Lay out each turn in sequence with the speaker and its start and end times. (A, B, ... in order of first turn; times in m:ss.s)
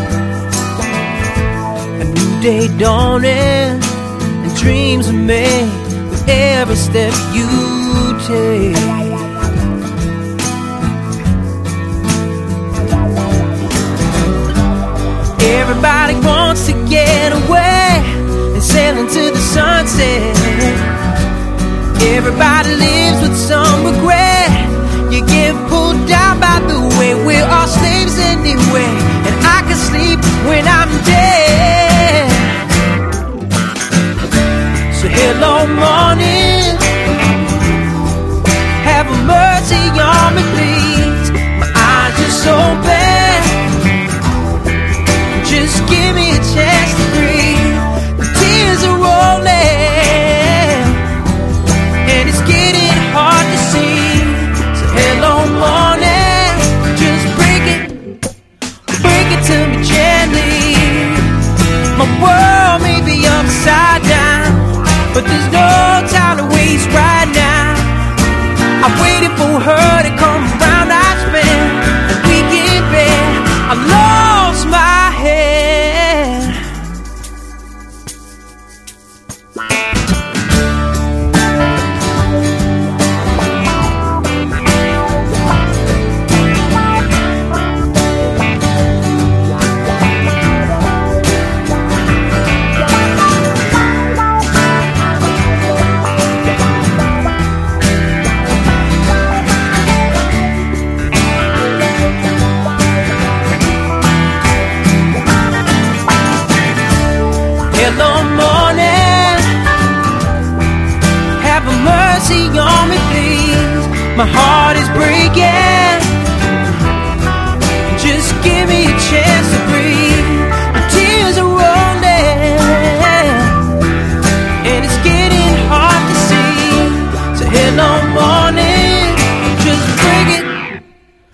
0:02.0-0:09.3 A
0:15.4-0:20.9 A
0:22.0-0:32.6 A
0:34.9-0:36.8 A
0:38.8-0:43.6 A
0:45.4-0:51.1 A
0:52.0-0:58.1 A
0:58.9-1:01.3 A
1:01.9-1:07.9 A
1:08.8-1:16.7 A
1:47.7-1:49.5 A
1:51.4-1:56.1 A
1:57.9-2:03.6 A
2:04.6-2:10.8 A